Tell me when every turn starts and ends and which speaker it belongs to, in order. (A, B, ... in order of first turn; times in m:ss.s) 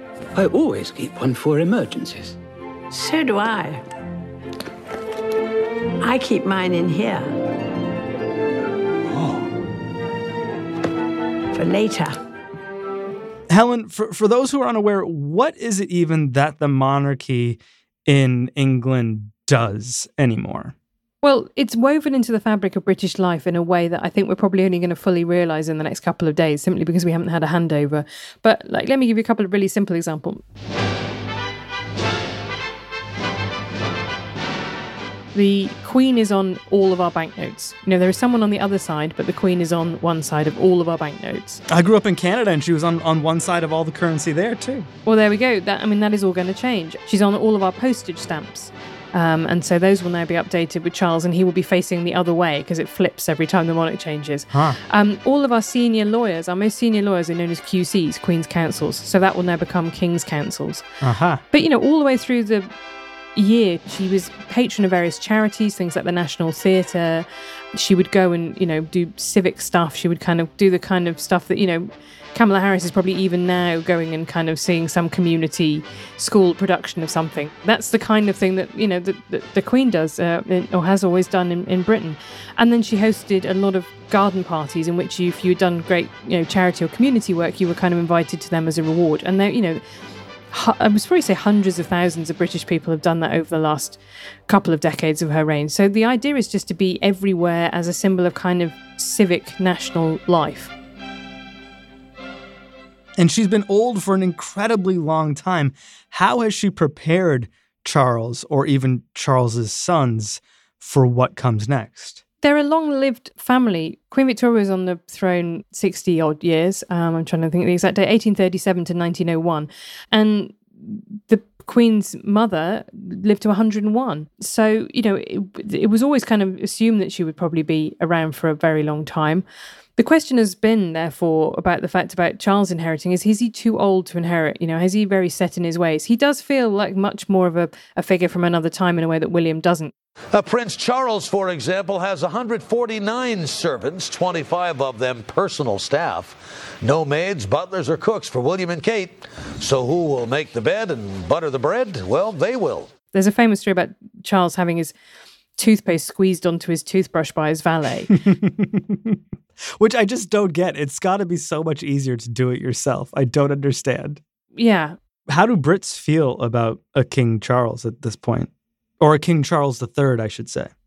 0:00.3-0:02.4 A
0:02.9-0:03.8 B
0:06.0-0:07.3 B
0:09.1-0:09.4 A
0:11.5-0:12.2 B
0:13.5-0:20.7 C
0:21.2-0:30.4 D
0:35.3-0:41.6 D
0:41.7-0:44.9 C
0:45.0-1:00.8 D
0:54.5-0:54.8 C
1:01.0-1:01.4 C
1:01.5-1:02.7 D
1:03.3-1:29.8 D
1:30.5-1:40.7 D
1:43.2-1:52.2 C
1:52.4-2:09.4 D
2:10.0-2:19.9 D
2:20.3-2:32.9 E
2:33.1-2:34.9 D
2:35.6-2:38.1 D
2:38.1-2:39.2 C
2:39.8-2:44.2 C
2:44.5-2:45.0 D
2:45.3-2:48.5 C
2:49.0-2:50.7 C